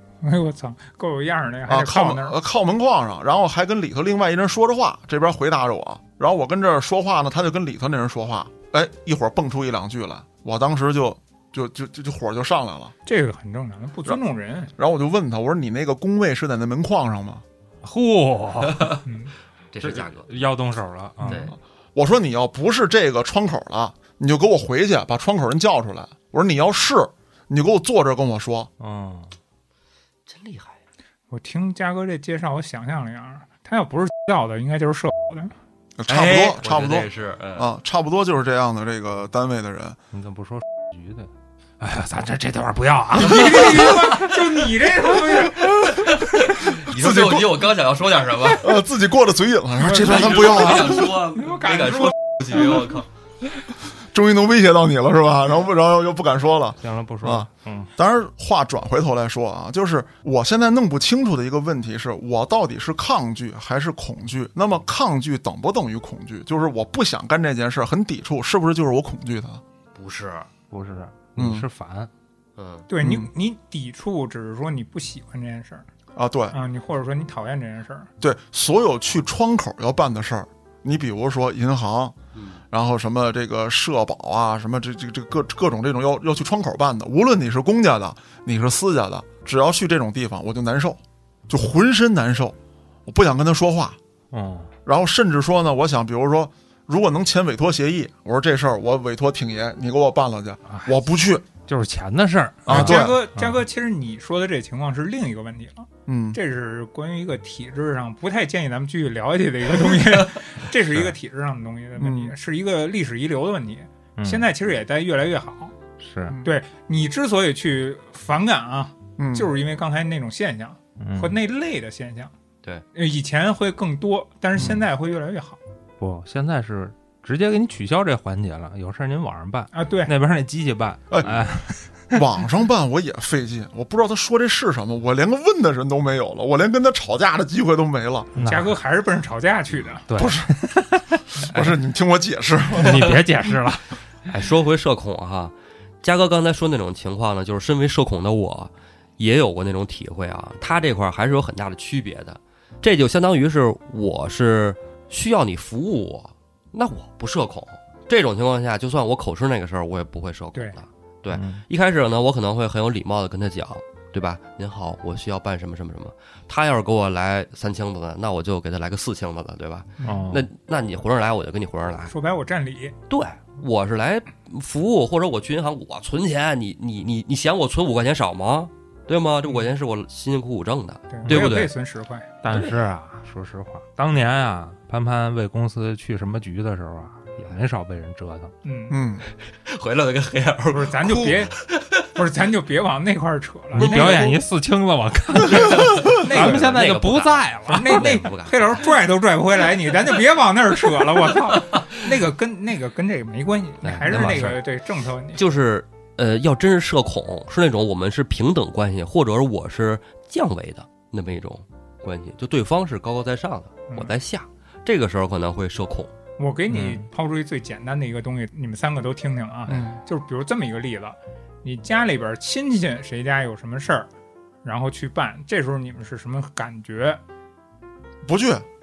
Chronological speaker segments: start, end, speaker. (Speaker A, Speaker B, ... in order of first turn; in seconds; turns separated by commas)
Speaker A: 0.2-2.4, Speaker B: 1.7-12.9, Speaker A: 13.1-14.7, Speaker B: 14.8-17.4, Speaker C: 17.8-19.0, Speaker A: 19.0-19.3, Speaker D: 19.7-20.3, Speaker C: 19.8-21.4, Speaker A: 21.2-21.5, Speaker D: 21.3-21.5, Speaker B: 21.9-28.7, Speaker C: 28.8-29.3, Speaker D: 30.3-30.8, Speaker A: 31.3-35.5, Speaker B: 36.0-40.0, Speaker D: 36.1-37.7, Speaker C: 40.1-44.1, Speaker A: 43.1-46.0, Speaker D: 43.5-44.6, Speaker D: 45.4-48.8, Speaker B: 46.9-47.7, Speaker B: 48.5-51.1, Speaker A: 49.8-53.0, Speaker D: 49.8-53.1, Speaker B: 54.1-69.6, Speaker C: 56.8-57.9, Speaker D: 69.9-70.5, Speaker C: 70.7-72.1, Speaker B: 71.4-71.7, Speaker D: 72.6-72.9, Speaker A: 72.9-75.8, Speaker B: 73.0-73.3, Speaker B: 76.1-76.5, Speaker A: 76.5-78.1, Speaker B: 78.2-82.1, Speaker D: 82.3-82.6, Speaker B: 82.7-94.0, Speaker C: 94.3-94.7, Speaker B: 94.8-101.4, Speaker C: 100.7-100.9, Speaker C: 101.7-103.6, Speaker B: 102.7-103.2, Speaker A: 102.7-115.7, Speaker B: 106.1-106.4, Speaker B: 112.0-112.3, Speaker C: 114.2-114.5, Speaker C: 116.0-116.4, Speaker A: 116.4-122.3, Speaker B: 119.2-119.5, Speaker C: 121.0-121.4, Speaker A: 122.9-125.6, Speaker C: 126.0-132.2, Speaker A: 129.7-130.1, Speaker B: 132.1-138.3, Speaker C: 138.3-138.7, Speaker A: 138.4-140.1, Speaker C: 140.1-141.2, Speaker B: 140.2-140.5, Speaker B: 141.4-143.1, Speaker C: 142.7-143.9, Speaker D: 144.2-172.1, Speaker C: 161.3-161.6, Speaker A: 170.0-170.2, Speaker C: 170.0-170.5, Speaker A: 172.1-172.9, Speaker D: 173.1-181.7, Speaker A: 181.1-182.3, Speaker C: 182.4-188.5, Speaker A: 188.6-189.0, Speaker B: 188.9-189.2, Speaker D: 189.4-192.0, Speaker A: 190.7-191.6, Speaker A: 192.1-194.4, Speaker D: 193.7-194.3, Speaker C: 193.7-198.2, Speaker D: 195.6-198.9, Speaker A: 196.0-196.9, Speaker A: 197.7-205.4, Speaker D: 203.8-204.6, Speaker C: 204.1-204.4, Speaker D: 205.3-216.1, Speaker A: 216.4-224.1, Speaker C: 216.7-217.0, Speaker B: 219.7-220.0, Speaker A: 224.6-227.2, Speaker B: 228.2-228.6